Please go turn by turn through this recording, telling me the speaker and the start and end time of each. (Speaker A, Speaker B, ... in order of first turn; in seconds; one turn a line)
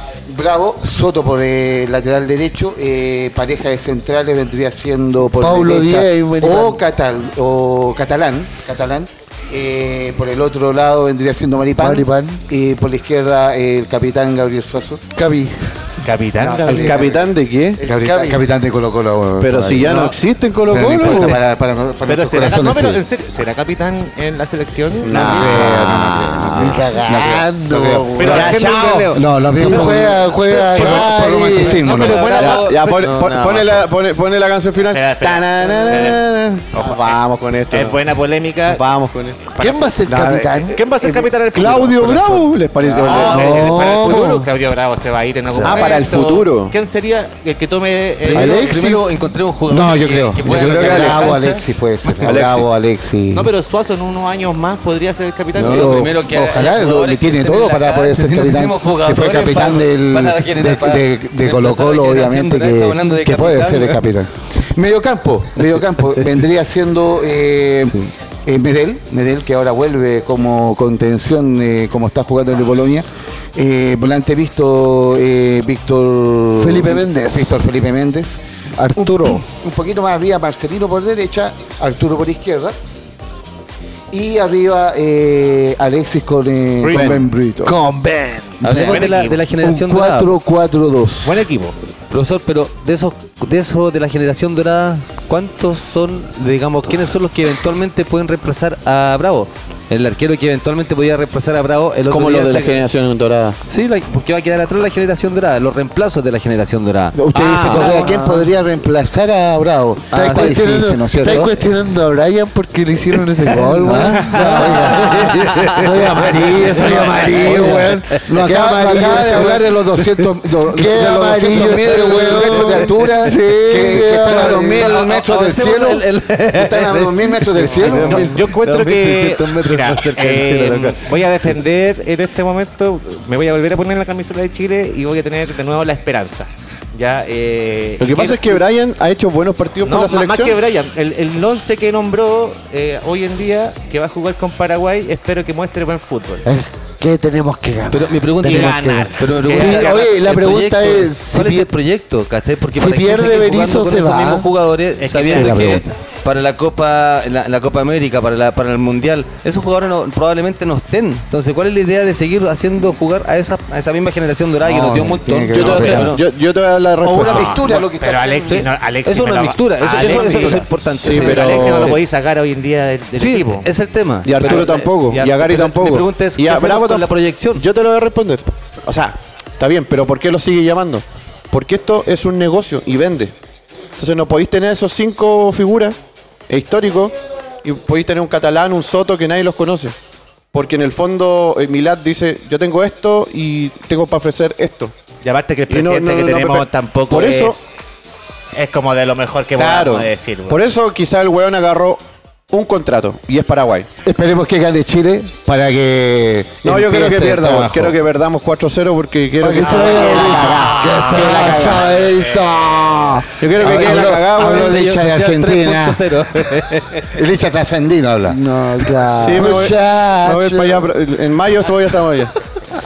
Speaker A: 0.3-15.0
Speaker B: 5.4-6.8
Speaker B: 11.8-12.4
Speaker B: 15.1-17.1
Speaker C: 16.0-17.1
Speaker A: 16.7-17.2
Speaker D: 16.7-17.8
Speaker B: 17.8-18.4
Speaker A: 17.8-20.0
Speaker D: 19.4-21.4
Speaker C: 19.8-20.2
Speaker A: 20.7-23.0
Speaker C: 20.7-21.4
Speaker C: 22.0-26.0
Speaker D: 25.0-26.8
Speaker A: 25.1-32.2
Speaker B: 26.6-28.6
Speaker C: 26.9-27.4
Speaker C: 28.1-32.7
Speaker D: 28.2-29.2
Speaker B: 29.5-31.8
Speaker E: 31.8-33.9
Speaker D: 32.1-38.0
Speaker C: 34.9-37.2
Speaker C: 37.7-38.8
Speaker D: 38.7-39.5
Speaker C: 39.5-48.7
Speaker B: 39.6-41.1
Speaker A: 40.0-40.6
Speaker D: 41.5-43.6
Speaker E: 42.9-43.7
Speaker B: 43.3-44.5
Speaker B: 45.6-45.9
Speaker D: 45.6-46.7
Speaker E: 48.2-52.5
Speaker B: 48.3-49.0
Speaker A: 48.4-48.8
Speaker A: 49.7-53.5
Speaker D: 50.4-51.5
Speaker D: 52.2-52.7
Speaker C: 53.3-56.1
Speaker A: 55.5-78.4
Speaker E: 55.5-64.0
Speaker B: 76.6-77.5
Speaker B: 78.8-79.4
Speaker A: 79.0-82.7
Speaker A: 84.1-87.8
Speaker C: 86.8-87.1
Speaker D: 86.9-87.3
Speaker B: 87.6-88.6
Speaker A: 88.6-91.4
Speaker E: 88.6-90.4
Speaker C: 88.7-89.4
Speaker C: 91.2-91.8
Speaker E: 92.1-102.8
Speaker D: 102.1-103.6
Speaker E: 103.7-107.2
Speaker A: 107.1-111.5
Speaker D: 107.3-108.1
Speaker B: 107.3-108.5
Speaker E: 110.1-110.7
Speaker B: 110.1-119.6
Speaker E: 111.3-111.7
Speaker A: 113.5-128.4
Speaker E: 114.3-118.3
Speaker E: 118.9-120.3
Speaker B: 120.7-124.9
Speaker E: 121.8-123.4
Speaker E: 124.1-131.2
Speaker C: 127.8-138.6
Speaker D: 138.0-140.6
Speaker C: 139.8-146.5
Speaker B: 146.4-151.7
Speaker E: 147.9-166.2
Speaker C: 148.4-150.1
Speaker B: 152.7-154.5
Speaker C: 155.0-155.8
Speaker A: 155.3-155.9
Speaker A: 164.6-166.2
Speaker D: 165.5-167.8
Speaker A: 167.0-168.7
Speaker C: 167.2-173.7
Speaker E: 168.4-172.0
Speaker D: 170.0-172.0
Speaker E: 173.1-177.6
Speaker D: 174.2-183.3
Speaker C: 174.4-175.3
Speaker D: 184.0-186.0
Speaker D: 186.5-190.0
Speaker D: 190.5-194.9
Speaker C: 195.2-197.7
Speaker D: 195.7-197.6
Speaker C: 198.5-200.6
Speaker D: 199.6-203.9
Speaker A: 204.0-208.0
Speaker D: 206.6-211.8
Speaker A: 209.4-211.9
Speaker B: 209.4-213.4
Speaker C: 209.9-210.6
Speaker C: 211.1-212.9
Speaker D: 213.4-214.8
Speaker E: 213.6-217.2
Speaker A: 213.6-220.8
Speaker B: 218.2-220.7
Speaker D: 219.2-222.3